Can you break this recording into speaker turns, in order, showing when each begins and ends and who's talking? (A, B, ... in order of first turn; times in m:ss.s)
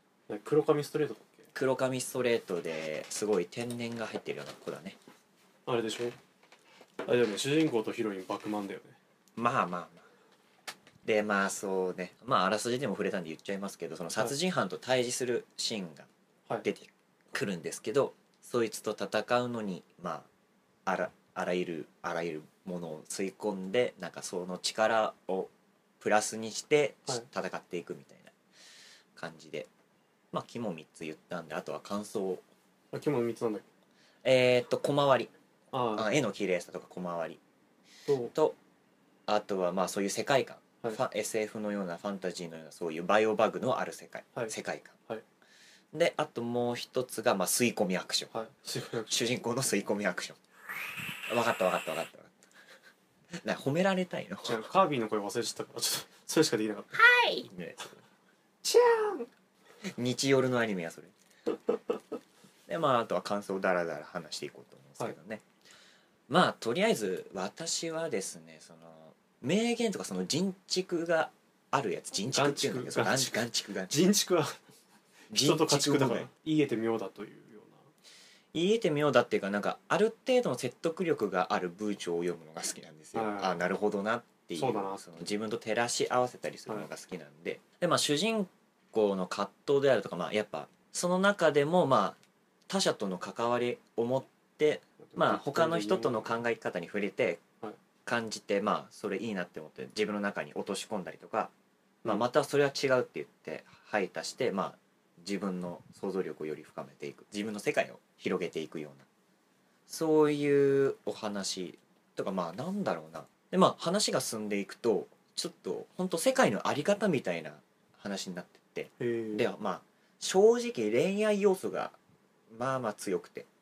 0:00.3-0:01.5 A
0:01.5-0:05.0 B
0:05.7-0:06.2 A
0:07.0-0:09.0 A
0:09.4-0:10.0 B
0:11.0-0:16.1 B
0:16.6-0:20.3 B
0:20.9-0:28.3 B
0:29.2-0:29.7 B
0:30.3-0:32.4 B
0:32.9-0:33.7 A
0:34.2-0:35.3 B
0:35.7-0:36.1 A
0:36.0-0:37.4 B
0:38.1-0:38.3 A
0:38.3-0:38.6 B
0:39.3-0:45.0 B
0:45.9-0:48.3 B
0:48.3-0:49.2 A
0:49.1-0:50.4 B
0:51.3-0:52.4 B
0:53.4-0:54.6 B
0:54.5-0:57.3 A
0:57.0-0:58.0 B
0:58.6-0:59.3 B
0:59.9-1:01.1 B
1:02.7-1:05.4 B
1:06.3-1:13.9 B
1:12.3-1:14.6 A
1:15.3-1:16.3 B
1:15.4-1:17.9 A
1:18.5-1:37.4 B
1:23.2-1:23.6 A
1:24.6-1:25.0 A
1:35.0-1:36.4 A
1:38.1-1:41.5 B
1:42.0-1:49.1 B
1:49.9-2:02.0 B
1:59.0-1:59.5 A
2:02.5-2:03.5 B